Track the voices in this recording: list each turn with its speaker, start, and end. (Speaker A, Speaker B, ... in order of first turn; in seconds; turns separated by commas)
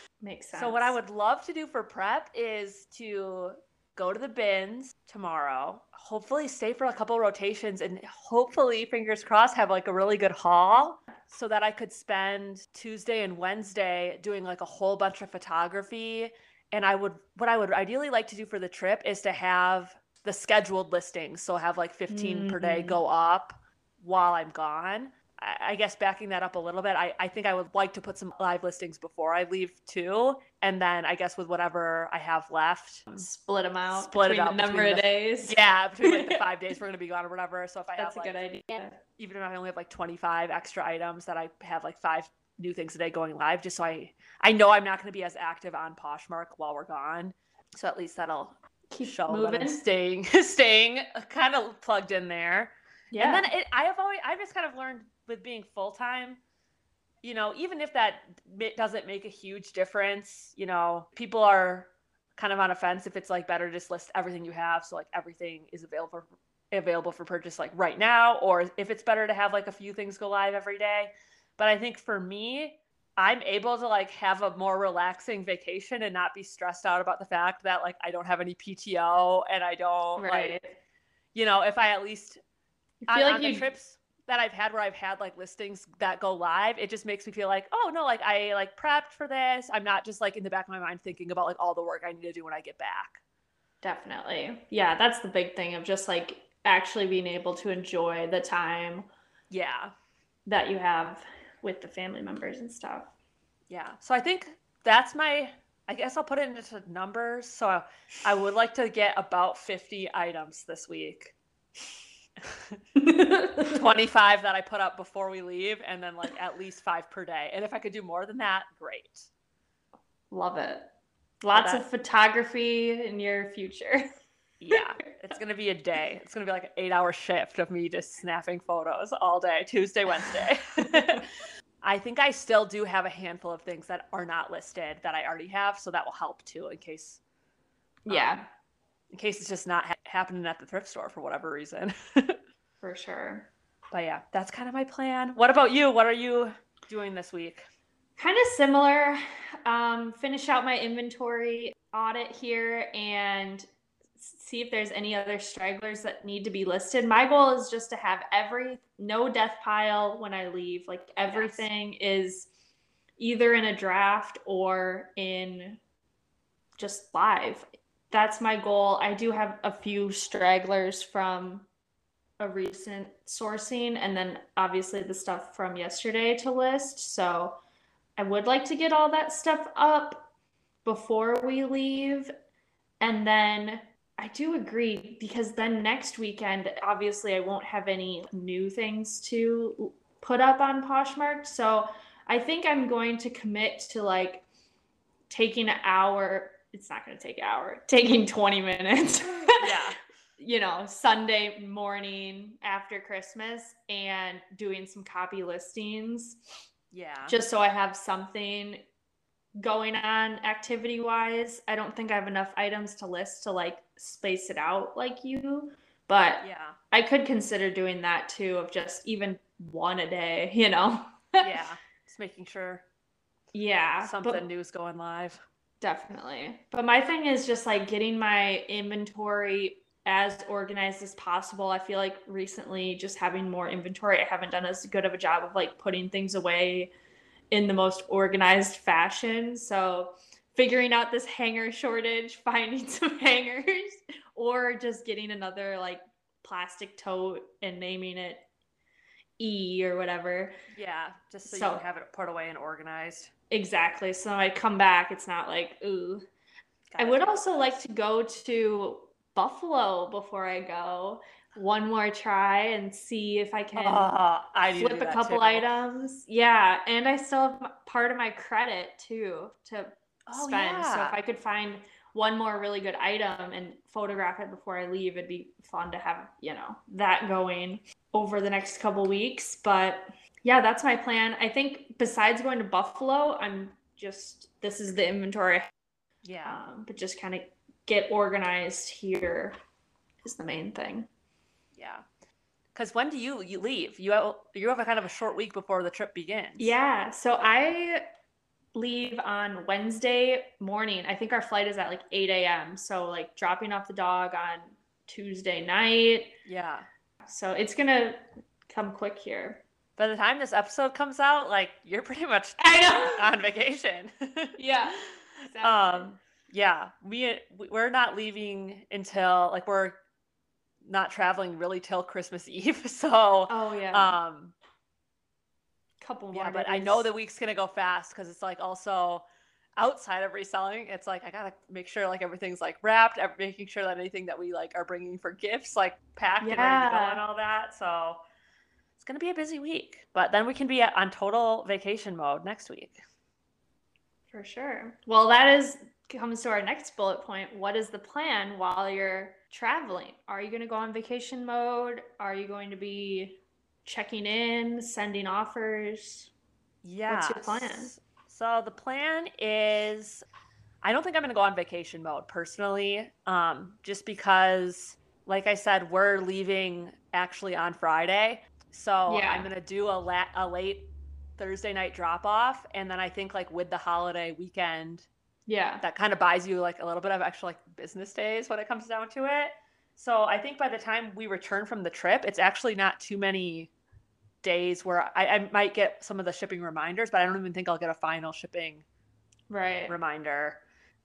Speaker A: 0.2-1.0, Speaker B: 0.5-33.2, Speaker A: 22.1-23.0, Speaker A: 33.1-36.4, Speaker B: 33.9-38.4, Speaker A: 38.0-39.0, Speaker B: 39.2-56.4, Speaker A: 48.9-49.8, Speaker A: 53.1-53.5, Speaker B: 57.2-80.6, Speaker A: 80.2-80.8, Speaker B: 81.3-82.4, Speaker A: 83.0-83.7, Speaker B: 83.1-93.2, Speaker A: 93.8-99.1, Speaker B: 99.5-99.9, Speaker A: 100.5-103.1, Speaker B: 103.7-111.3, Speaker B: 112.4-112.8, Speaker A: 113.0-113.8, Speaker B: 113.7-119.3, Speaker A: 120.3-120.9, Speaker A: 121.4-124.1, Speaker B: 121.5-121.8, Speaker B: 124.6-131.3, Speaker B: 131.8-137.2, Speaker A: 138.1-138.5, Speaker B: 138.1-138.4, Speaker B: 139.1-142.4, Speaker A: 142.8-143.5, Speaker B: 143.9-147.7, Speaker A: 148.2-153.7, Speaker A: 154.2-162.5, Speaker B: 161.3-161.7, Speaker A: 163.2-165.8, Speaker A: 166.8-171.7, Speaker A: 172.4-177.6, Speaker A: 178.2-180.3, Speaker A: 180.8-182.3, Speaker A: 183.0-194.4, Speaker A: 195.3-199.7, Speaker B: 199.6-200.0, Speaker A: 200.4-206.4, Speaker B: 206.9-207.4, Speaker A: 207.3-208.8, Speaker A: 209.6-221.5, Speaker B: 216.4-216.8, Speaker B: 221.4-222.8, Speaker A: 223.5-224.5, Speaker B: 224.0-225.4, Speaker A: 225.8-236.9, Speaker A: 237.5-248.5, Speaker A: 249.4-250.6, Speaker B: 250.7-253.3, Speaker A: 251.5-251.8, Speaker A: 253.5-256.2, Speaker B: 256.9-257.4, Speaker A: 257.0-264.1, Speaker B: 263.8-265.7, Speaker A: 264.7-285.7, Speaker B: 270.3-271.2, Speaker B: 286.2-286.6, Speaker A: 286.4-289.6, Speaker A: 290.2-291.1, Speaker B: 291.8-292.1, Speaker B: 292.8-296.8, Speaker A: 296.6-298.0, Speaker A: 298.8-306.3, Speaker B: 306.4-306.9, Speaker A: 307.3-309.6, Speaker B: 310.0-314.6, Speaker A: 312.6-313.2, Speaker A: 314.6-316.1, Speaker B: 315.6-320.0, Speaker B: 320.8-324.5, Speaker A: 323.5-324.2, Speaker A: 326.0-327.1, Speaker B: 326.3-329.2, Speaker B: 329.8-338.2, Speaker A: 336.4-337.2, Speaker B: 339.0-343.0, Speaker A: 344.3-356.3, Speaker B: 356.8-360.2, Speaker A: 357.1-357.9, Speaker B: 360.8-375.1, Speaker A: 369.1-369.5, Speaker A: 375.5-375.8, Speaker B: 375.8-383.7, Speaker B: 384.4-388.8, Speaker A: 389.5-389.9, Speaker B: 389.9-390.6